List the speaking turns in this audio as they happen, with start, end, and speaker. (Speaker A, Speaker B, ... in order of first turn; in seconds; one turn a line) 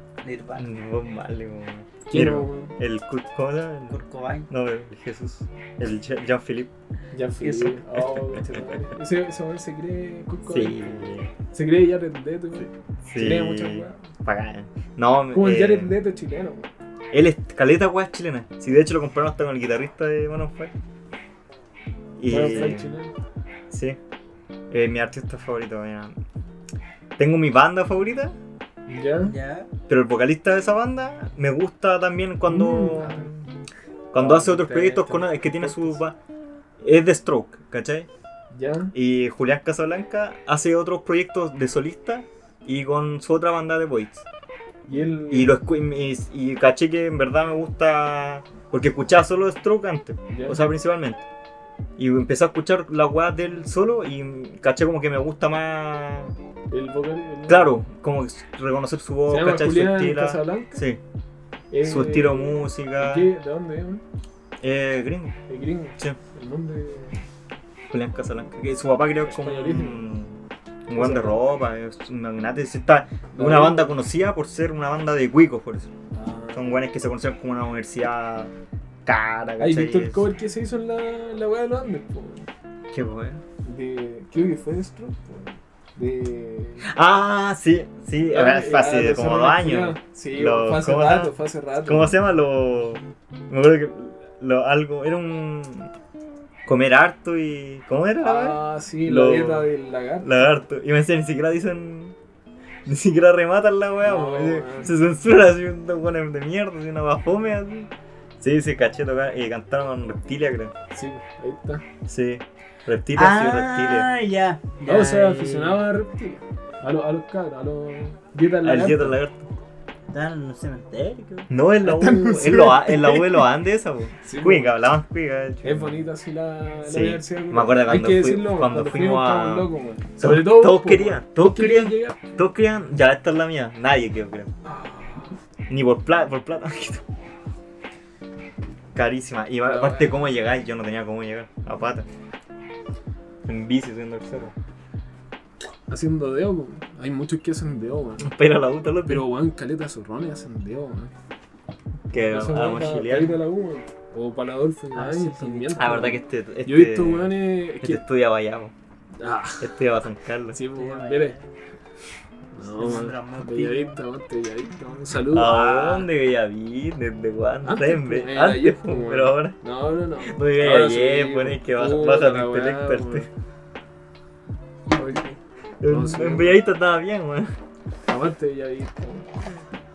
Speaker A: 0.2-0.7
Speaker B: 0.6-6.7
Speaker C: 2.0-2.7
Speaker A: 3.9-4.5
Speaker C: 7.1-14.1
Speaker A: 7.4-7.8
Speaker B: 8.3-8.7
Speaker B: 10.5-11.3
Speaker B: 12.6-15.9
Speaker C: 15.3-16.7
Speaker B: 17.1-20.7
Speaker B: 22.2-22.9
Speaker C: 22.2-23.1
Speaker B: 23.7-24.0
Speaker B: 24.7-26.2
Speaker B: 27.2-28.4
Speaker C: 28.9-29.3
Speaker A: 29.2-29.7
Speaker B: 29.9-33.4
Speaker C: 32.5-33.3
Speaker B: 34.1-36.1
Speaker C: 34.1-36.0
Speaker B: 36.8-38.1
Speaker C: 38.5-38.9
Speaker B: 38.9-44.2
Speaker C: 44.9-45.6
Speaker B: 45.3-51.2
Speaker C: 50.3-50.6
Speaker B: 52.0-56.3
Speaker C: 56.7-57.8
Speaker B: 57.5-61.0
Speaker C: 59.3-60.8
Speaker C: 61.7-64.0
Speaker B: 61.8-63.3
Speaker B: 64.6-65.4
Speaker C: 65.5-67.2
Speaker B: 67.9-75.9
Speaker C: 69.2-70.1
Speaker C: 70.9-71.5
Speaker C: 73.3-73.9
Speaker C: 76.1-76.8
Speaker B: 76.5-78.5
Speaker B: 79.0-80.3
Speaker C: 79.6-82.5
Speaker B: 82.9-83.4
Speaker C: 83.6-86.8
Speaker B: 86.8-95.9
Speaker C: 88.3-92.2
Speaker B: 96.7-99.7
Speaker C: 98.2-100.5
Speaker B: 100.2-102.2
Speaker B: 102.8-110.7
Speaker C: 104.0-104.9
Speaker C: 110.9-111.8
Speaker B: 112.0-114.1
Speaker A: 113.1-115.8
Speaker C: 114.8-119.2
Speaker B: 118.6-119.5
Speaker A: 120.1-121.5
Speaker B: 121.5-126.0
Speaker C: 121.8-123.5
Speaker C: 124.2-124.7
Speaker C: 125.6-132.3
Speaker B: 126.9-134.5
Speaker C: 134.6-135.3
Speaker B: 135.7-137.0
Speaker B: 138.9-142.1
Speaker C: 139.6-140.2
Speaker B: 143.4-144.5
Speaker C: 145.9-148.3
Speaker B: 148.2-149.3
Speaker C: 149.1-151.1
Speaker B: 152.1-153.4
Speaker C: 152.2-158.0
Speaker A: 154.9-156.1
Speaker B: 155.8-158.7
Speaker C: 159.2-159.7
Speaker B: 159.6-160.6
Speaker C: 160.5-161.3
Speaker A: 160.7-161.5
Speaker C: 162.5-166.1
Speaker A: 162.6-164.0
Speaker B: 165.3-169.6
Speaker C: 167.6-173.3
Speaker B: 170.2-173.3
Speaker A: 174.8-175.4
Speaker B: 175.8-177.5
Speaker C: 175.9-176.6
Speaker C: 178.1-179.4